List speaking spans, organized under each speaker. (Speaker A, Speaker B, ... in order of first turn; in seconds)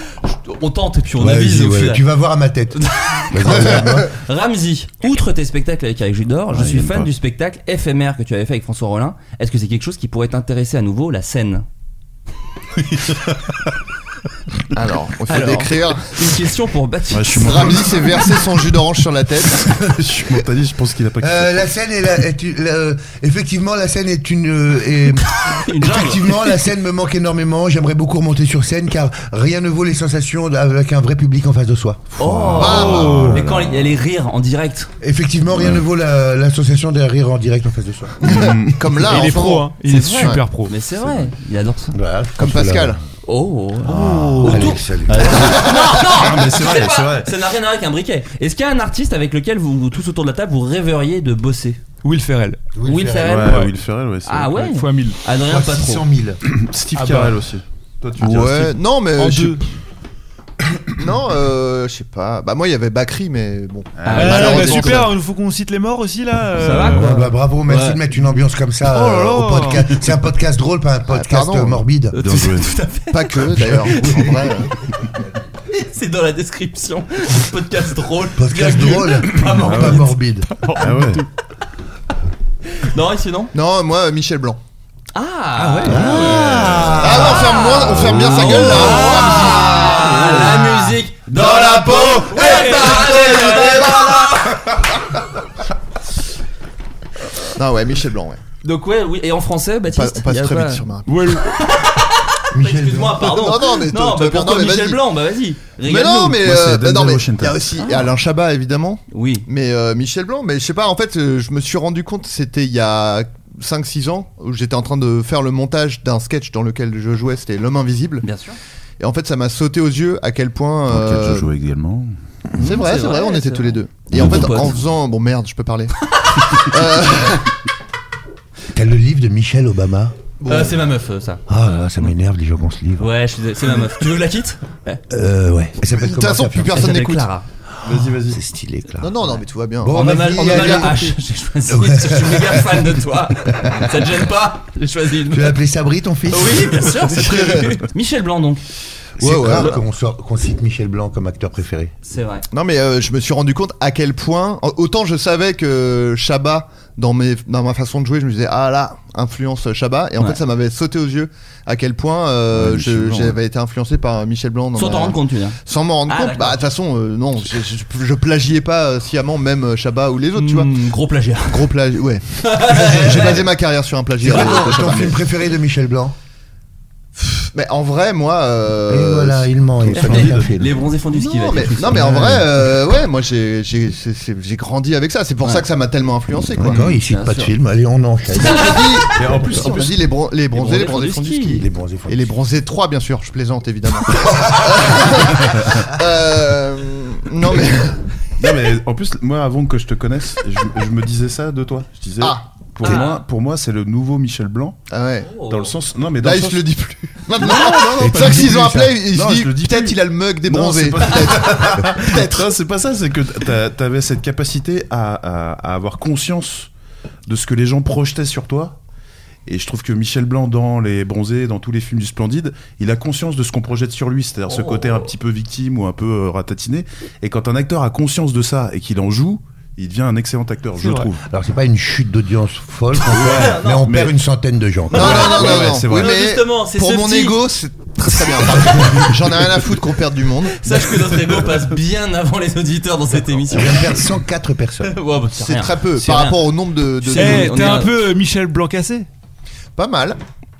Speaker A: 0.2-2.0, 2.7-11.7, 15.3-17.9, 25.4-26.5, 32.2-34.9, 39.9-41.9, 43.2-51.8, 52.8-53.6, 54.2-56.1, 64.0-65.0, 66.6-68.0, 72.1-74.5, 75.7-80.1, 82.8-83.5, 85.1-94.8, 98.6-100.8, 101.4-106.4, 107.8-108.1, 109.1-109.4, 118.2-118.6, 122.5-124.9, 126.2-126.5, 130.4-131.4, 133.0-135.0, 136.7-137.4, 139.9-145.6, 146.3-148.6, 152.0-152.4, 164.7-166.6, 170.3-171.7, 172.4-173.4, 174.3-175.1, 179.9-182.4, 186.6-187.5, 188.3-189.2, 190.5-191.6, 202.8-203.2, 205.2-205.7, 224.5-225.0, 232.9-233.9, 234.9-237.4, 238.4-239.0, 240.6-244.0, 244.8-248.0
Speaker B: 1.1-4.1, 21.2-33.4, 35.0-38.2, 41.9-43.0, 43.9-45.6, 52.7-53.4, 55.4-56.4, 66.8-72.2, 78.4-80.5, 85.8-87.3, 102.5-103.3, 128.7-130.1, 131.5-133.1, 135.1-136.9, 137.8-141.1, 141.7-143.0, 145.3-147.0, 149.2-151.9, 172.9-173.3, 174.2-176.1, 178.9-180.7, 186.6-188.8, 191.5-192.3, 231.2-235.4, 243.5-245.0
Speaker C: 6.5-7.1, 13.0-13.6, 17.1-18.6, 19.6-21.7, 32.2-33.9, 35.5-35.8, 38.2-39.0, 43.8-47.3, 53.2-54.7, 56.4-58.8, 64.0-64.5, 66.6-67.1, 72.2-72.8, 79.4-80.1, 80.7-81.2, 85.8-89.0, 106.2-107.7, 120.9-122.8, 124.1-124.7, 137.8-138.4, 162.5-163.4, 179.8-180.7, 189.1-190.1, 198.4-204.8, 205.4-206.7, 207.3-216.7, 217.3-218.8, 219.4-231.2, 233.0-234.2, 234.9-236.1
Speaker D: 14.7-16.2, 17.4-19.7, 32.5-33.4, 38.2-40.4, 42.4-43.0, 58.2-59.6, 61.0-65.1, 71.1-71.8, 73.1-74.7, 83.5-84.6, 87.0-94.1, 97.5-98.4, 99.9-101.4, 103.2-105.0, 105.8-118.3, 119.0-121.5, 122.6-127.5, 130.4-130.8, 135.8-137.3, 139.0-141.1, 147.1-147.8, 149.2-149.8, 152.5-170.7, 171.5-175.2, 177.2-179.5, 181.1-186.8, 188.3-198.0, 202.2-203.0, 204.9-205.3, 206.2-212.5, 234.9-240.9, 245.4-247.8, 249.8-250.2
Speaker E: 39.0-40.7, 52.0-52.6, 53.4-53.7, 54.5-55.2, 56.9-57.4, 59.1-59.6, 64.1-67.1, 68.9-69.9, 80.6-81.2, 101.1-101.4, 230.8-231.1, 247.1-249.1